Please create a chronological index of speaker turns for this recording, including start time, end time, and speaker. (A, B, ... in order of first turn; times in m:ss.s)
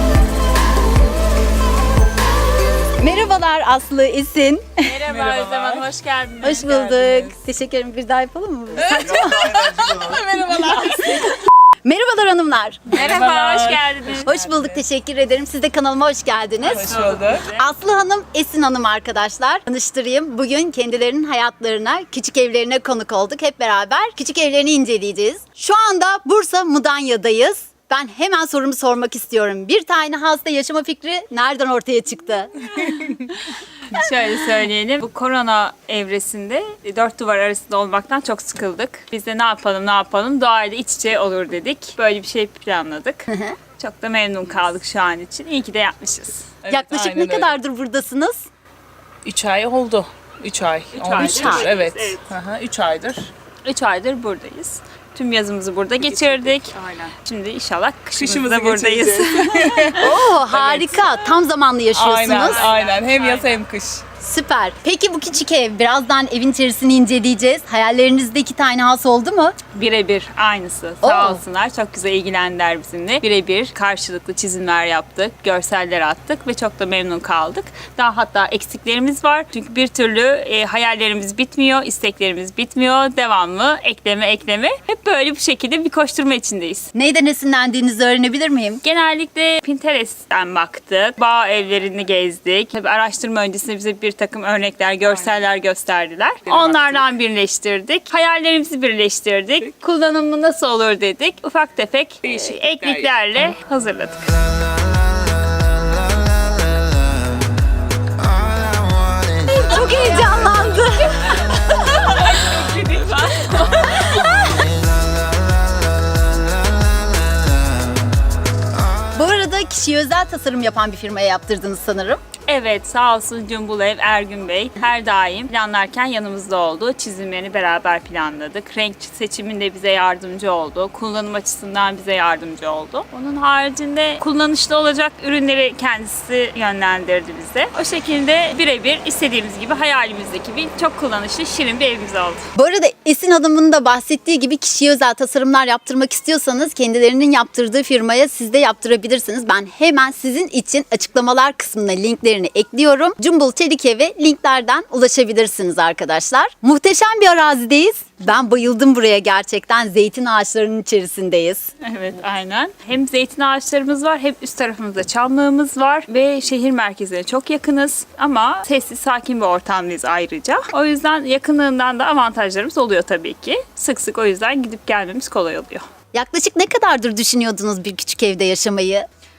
0:03.0-0:05.0 A
0:04.9-0:07.4 B
0:05.0-0:05.9 C
0:06.4-0:09.8 A
0:08.9-0:11.3 C
0:09.5-0:11.0 B
0:10.9-0:13.2 A
0:12.9-0:14.8 C
0:12.9-0:14.3 B
0:14.2-0:32.5 A
0:16.6-0:17.7 B
0:16.6-0:17.5 C
0:32.8-0:43.3 B
0:43.3-0:43.6 A
0:43.8-0:46.6 B
0:46.6-0:47.5 C
0:46.7-0:48.5 A
0:49.2-0:53.3 C
0:50.9-0:52.2 B
0:51.1-0:51.7 A
0:53.7-1:00.1 B
0:58.2-1:01.1 C
1:00.0-1:02.7 A
1:01.9-1:04.0 C
1:02.2-1:03.6 B
1:04.2-1:09.6 A
1:09.7-1:26.9 B
1:11.0-1:11.4 A
1:26.9-1:28.8 A
1:28.8-1:44.3 B
1:36.5-1:37.0 C
1:42.2-1:43.1 C
1:49.5-1:52.4 A
1:51.9-1:54.3 B
1:52.4-1:53.0 C
1:53.8-1:54.6 A
1:59.1-2:02.2 A
2:02.5-2:22.5 B
2:22.6-2:41.7 A
2:41.8-2:55.9 B
2:56.1-2:59.1 A